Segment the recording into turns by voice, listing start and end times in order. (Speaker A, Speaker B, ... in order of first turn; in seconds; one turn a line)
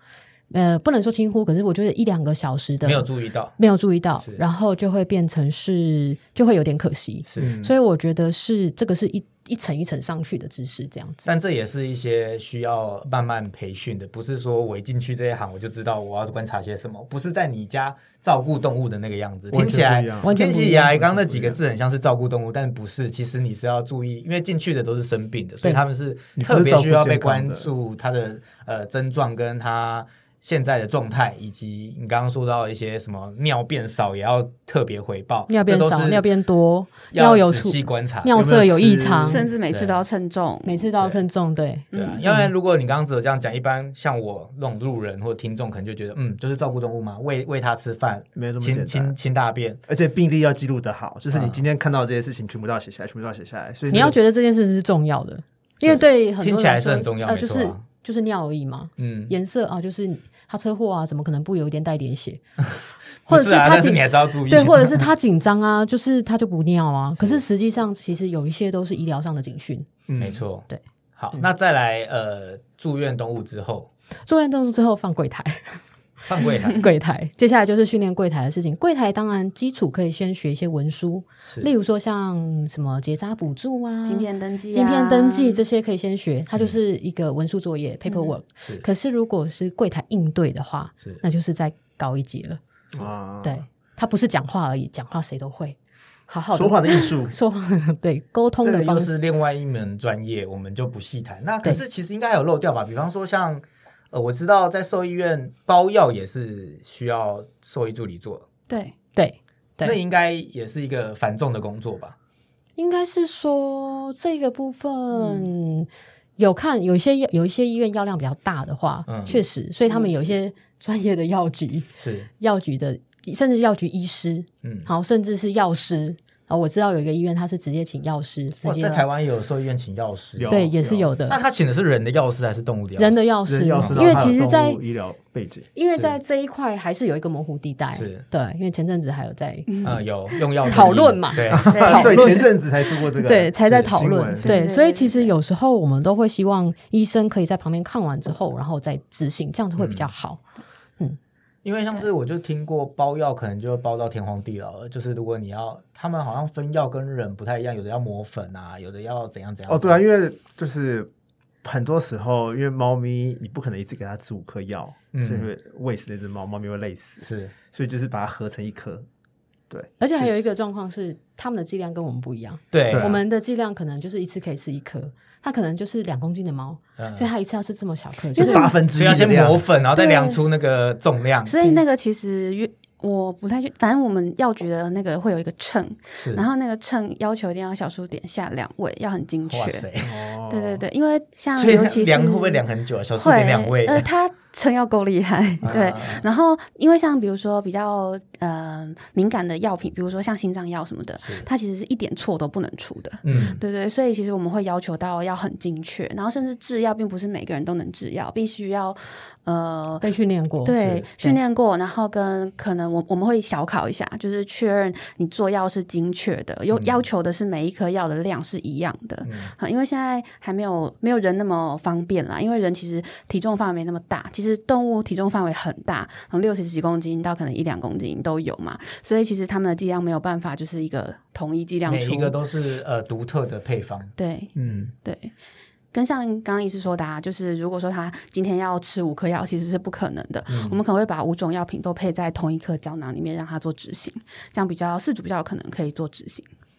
Speaker A: 0.5-11.3
Speaker B: 2.8-3.5
Speaker B: 7.3-7.5
Speaker C: 7.4-7.7
Speaker B: 11.2-36.3
Speaker C: 19.5-21.6
Speaker A: 20.2-21.0
Speaker C: 26.4-27.7
Speaker A: 35.5-39.5
Speaker B: 37.1-38.3
Speaker C: 38.3-39.5
Speaker D: 39.3-40.9
Speaker B: 39.7-40.0
Speaker A: 40.6-42.5
Speaker D: 41.9-42.3
Speaker B: 41.9-49.8
Speaker C: 48.4-49.1
Speaker C: 49.9-54.2
Speaker B: 51.3-51.6
Speaker A: 53.9-62.4
Speaker B: 55.9-57.8
Speaker B: 59.0-59.4
Speaker B: 63.3-65.0
Speaker A: 63.3-69.9
Speaker B: 67.2-67.4
Speaker C: 70.1-70.4
Speaker B: 70.2-73.9
Speaker A: 74.3-75.8
Speaker B: 76.3-76.9
Speaker A: 76.4-92.6
Speaker D: 84.0-85.6
Speaker D: 88.1-88.3
Speaker C: 92.9-93.6
Speaker A: 93.4-95.8
Speaker A: 96.3-99.2
Speaker C: 96.5-97.3
Speaker B: 98.6-108.5
Speaker D: 108.7-109.0
Speaker A: 109.2-110.0
Speaker B: 109.8-112.2
Speaker A: 112.8-129.1
Speaker D: 115.1-115.5
Speaker B: 119.1-119.4
Speaker D: 119.9-120.3
Speaker B: 122.0-122.3
Speaker B: 124.6-124.9
Speaker B: 128.6-130.6
Speaker C: 130.4-131.1
Speaker A: 130.5-131.4
Speaker B: 131.3-133.2
Speaker A: 133.0-134.8
Speaker C: 133.5-135.7
Speaker B: 133.8-134.1
Speaker A: 135.8-139.8
Speaker B: 135.9-136.2
Speaker B: 137.9-138.2
Speaker D: 139.7-140.9
Speaker B: 139.8-142.1
Speaker A: 140.7-142.6
Speaker C: 141.5-144.6
Speaker D: 141.7-142.5
Speaker A: 143.2-150.4
Speaker D: 144.4-145.3
Speaker B: 149.8-150.1
Speaker B: 151.6-160.0
Speaker C: 159.7-161.1
Speaker C: 161.6-169.1
Speaker B: 165.1-165.5
Speaker B: 167.2-167.5
Speaker C: 169.7-170.3
Speaker A: 170.0-178.7
Speaker B: 172.7-173.2
Speaker C: 172.9-173.2
Speaker B: 177.0-177.3
Speaker C: 178.3-179.7
Speaker D: 178.4-178.7
Speaker B: 178.8-181.6
Speaker D: 179.9-180.4
Speaker D: 181.4-189.9
Speaker B: 186.2-186.4
Speaker B: 189.5-190.1
Speaker C: 190.0-190.8
Speaker D: 190.5-192.6
Speaker B: 191.6-194.1
Speaker D: 193.2-210.1
Speaker B: 195.6-196.3
Speaker B: 203.2-203.6
Speaker A: 210.0-211.4
Speaker D: 210.6-232.3
Speaker B: 219.2-219.5
Speaker B: 231.9-234.1
Speaker D: 234.2-235.3
Speaker C: 234.6-234.9
Speaker D: 235.9-246.5
Speaker B: 240.5-240.8